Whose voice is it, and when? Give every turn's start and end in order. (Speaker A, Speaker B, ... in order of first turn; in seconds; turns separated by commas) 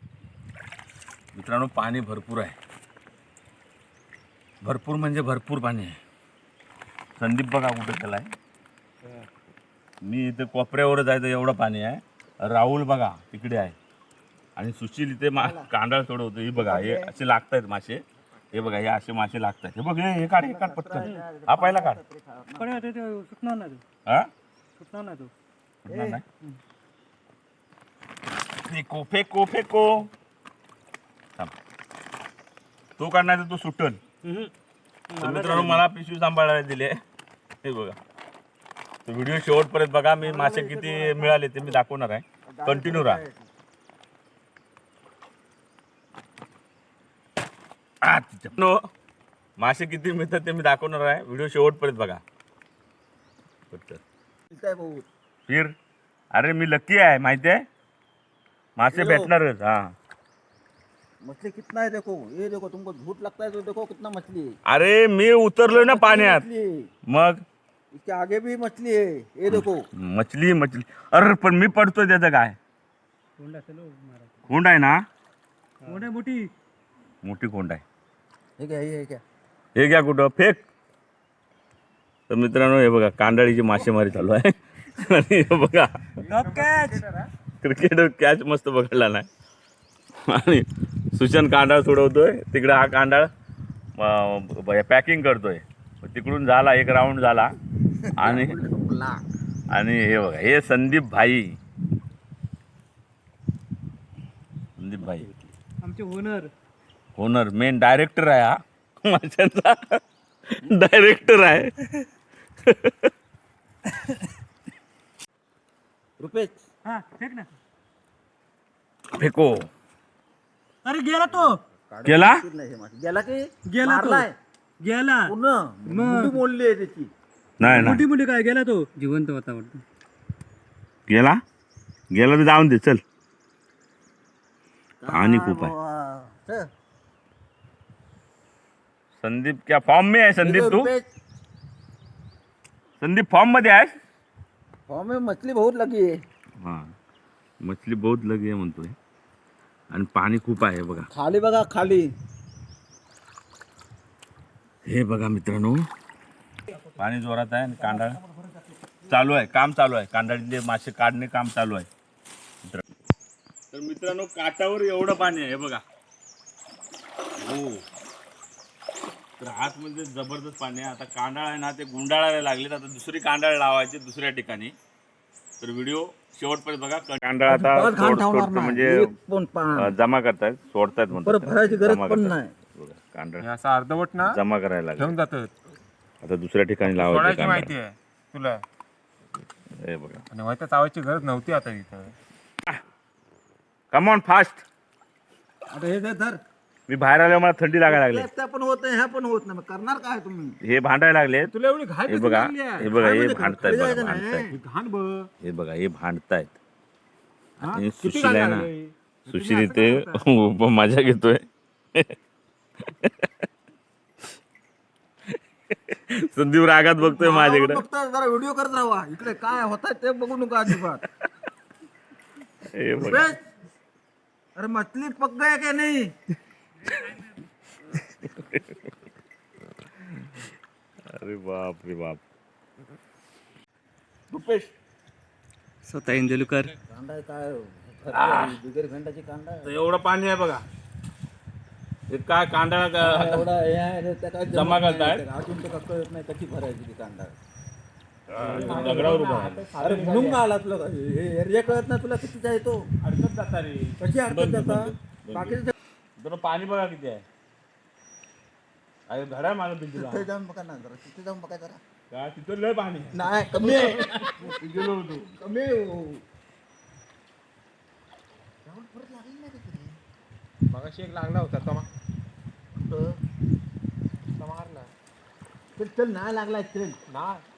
Speaker A: 1.3-2.6, Speaker A: 4.6-6.0, Speaker A: 7.2-8.3, Speaker A: 10.0-13.8, Speaker A: 14.6-22.0, Speaker B: 15.3-15.7, Speaker B: 16.6-17.1, Speaker B: 20.4-22.8, Speaker C: 22.6-23.8, Speaker C: 24.8-25.3, Speaker A: 25.9-26.2, Speaker B: 25.9-26.6, Speaker A: 28.6-30.1, Speaker A: 33.0-34.0, Speaker C: 34.2-34.5, Speaker C: 35.1-35.8, Speaker A: 35.2-37.0, Speaker A: 37.6-38.0, Speaker A: 39.1-43.2, Speaker B: 40.2-41.8, Speaker B: 42.5-43.5, Speaker A: 48.0-48.8, Speaker A: 49.6-52.2, Speaker A: 53.7-54.0, Speaker B: 54.5-55.1, Speaker A: 55.5-55.8, Speaker A: 56.3-57.6, Speaker A: 58.8-60.0, Speaker B: 58.9-59.3, Speaker B: 61.2-64.6, Speaker A: 64.7-66.5, Speaker B: 65.7-66.9, Speaker A: 67.1-67.5, Speaker B: 67.9-69.9, Speaker A: 69.5-72.6, Speaker C: 73.4-74.3, Speaker A: 74.5-75.0, Speaker C: 75.8-76.5, Speaker A: 77.2-77.8, Speaker B: 78.6-79.2, Speaker A: 79.8-80.7, Speaker A: 82.3-86.1, Speaker D: 86.2-87.3, Speaker C: 86.2-87.0, Speaker A: 87.6-89.3, Speaker A: 90.2-93.3, Speaker A: 94.0-97.5, Speaker B: 98.0-99.2, Speaker A: 98.2-98.6, Speaker A: 99.7-101.6, Speaker A: 104.8-105.3, Speaker B: 105.0-105.5, Speaker C: 105.8-106.5, Speaker A: 107.2-112.1, Speaker A: 112.6-113.1, Speaker B: 116.2-116.6, Speaker C: 116.8-117.5, Speaker A: 119.1-119.7, Speaker C: 120.8-121.6, Speaker B: 121.3-124.3, Speaker A: 122.0-122.4, Speaker C: 123.7-124.3, Speaker C: 124.8-125.3, Speaker B: 125.2-127.1, Speaker C: 125.9-126.4, Speaker A: 127.6-128.0, Speaker C: 127.6-129.8, Speaker A: 131.1-131.4, Speaker A: 132.1-133.0, Speaker B: 135.0-136.7, Speaker A: 135.1-135.7, Speaker A: 139.2-140.9, Speaker B: 140.4-141.1, Speaker A: 143.0-144.0, Speaker B: 144.9-146.1, Speaker A: 146.6-146.9, Speaker A: 147.6-148.9, Speaker A: 149.9-151.1, Speaker B: 151.1-152.1, Speaker A: 154.8-155.9, Speaker B: 156.7-157.1, Speaker A: 157.0-158.2, Speaker B: 157.8-159.2, Speaker A: 159.1-161.9, Speaker A: 163.7-165.8, Speaker A: 167.4-167.8, Speaker A: 169.4-174.7, Speaker A: 175.6-179.1, Speaker B: 177.5-179.9, Speaker A: 179.8-183.5, Speaker B: 181.2-182.5, Speaker D: 183.4-184.4, Speaker A: 184.2-185.2, Speaker D: 185.0-185.5, Speaker A: 186.2-187.7, Speaker D: 186.8-188.6, Speaker A: 189.8-190.2, Speaker D: 190.3-192.1, Speaker A: 193.9-194.7, Speaker B: 195.7-196.4, Speaker A: 196.9-198.3, Speaker B: 197.8-200.6, Speaker A: 200.6-201.5, Speaker D: 201.5-202.9, Speaker A: 202.1-204.5, Speaker B: 202.8-204.6, Speaker D: 204.5-205.3, Speaker A: 205.4-206.6, Speaker D: 207.6-210.3, Speaker A: 207.6-208.7, Speaker A: 209.3-212.2, Speaker A: 212.8-213.5, Speaker A: 215.3-217.8, Speaker B: 217.0-221.0, Speaker A: 222.6-223.3, Speaker B: 223.0-223.4, Speaker B: 224.6-226.1, Speaker A: 228.1-228.9, Speaker A: 231.1-232.2, Speaker A: 234.3-234.8, Speaker C: 235.9-236.8, Speaker B: 236.9-239.7, Speaker A: 238.1-238.6, Speaker A: 239.6-240.6, Speaker A: 242.1-243.5, Speaker B: 243.0-247.4, Speaker A: 244.5-245.2, Speaker A: 248.3-249.7, Speaker D: 248.3-250.4, Speaker B: 248.4-249.1, Speaker C: 249.1-249.5, Speaker B: 249.8-252.8, Speaker D: 253.0-253.9, Speaker B: 254.0-255.8, Speaker A: 254.3-255.6, Speaker A: 256.2-257.2, Speaker A: 259.1-260.3, Speaker B: 259.9-261.8, Speaker A: 262.1-264.9, Speaker B: 263.1-266.2, Speaker B: 268.6-270.0, Speaker D: 270.7-271.9, Speaker B: 272.7-273.2, Speaker D: 274.4-274.9, Speaker B: 275.8-277.0, Speaker D: 277.1-277.4